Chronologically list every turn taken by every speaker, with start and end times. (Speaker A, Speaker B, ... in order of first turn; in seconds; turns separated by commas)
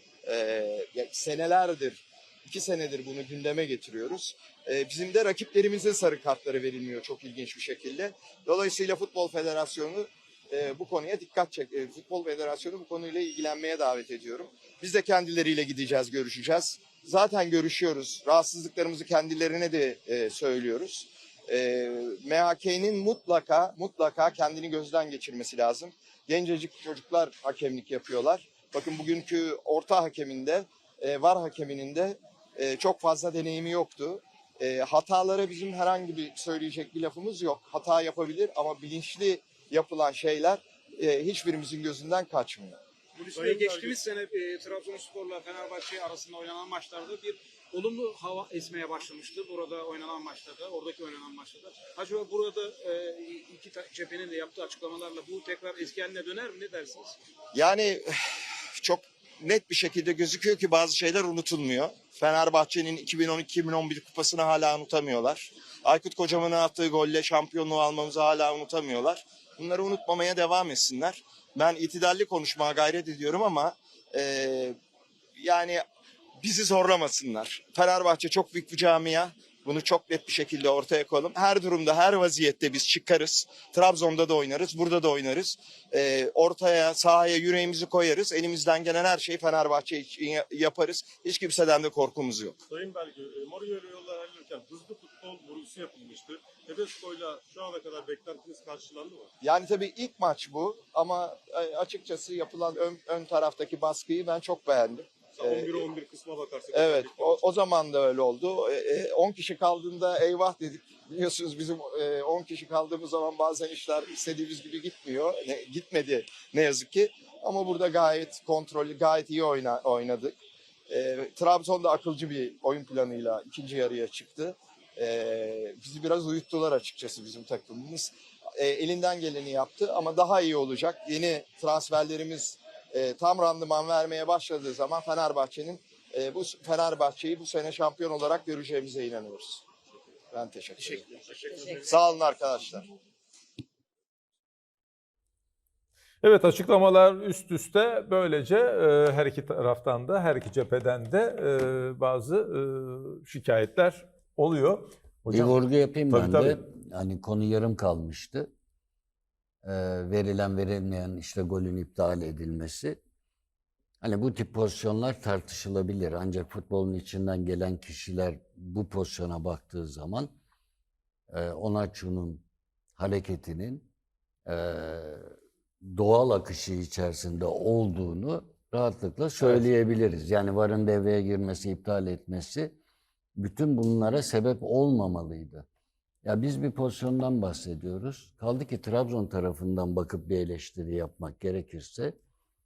Speaker A: 0.2-42.8, Speaker B: 43.2-57.1, Speaker C: 43.2-44.0, Speaker A: 57.5-58.1, Speaker A: 58.8-74.8, Speaker A: 75.4-75.8, Speaker A: 76.4-92.5, Speaker C: 92.7-99.3, Speaker A: 99.4-105.9, Speaker C: 105.3-107.5, Speaker A: 106.7-120.3, Speaker A: 120.9-139.6, Speaker A: 140.3-141.1, Speaker A: 141.7-142.9, Speaker D: 146.2-156.6, Speaker E: 155.3-158.5, Speaker E: 159.6-163.0, Speaker E: 164.0-170.3, Speaker E: 171.3-172.4, Speaker E: 173.0-173.9, Speaker E: 174.5-175.3, Speaker E: 175.8-182.8, Speaker E: 183.4-185.7, Speaker E: 186.2-192.1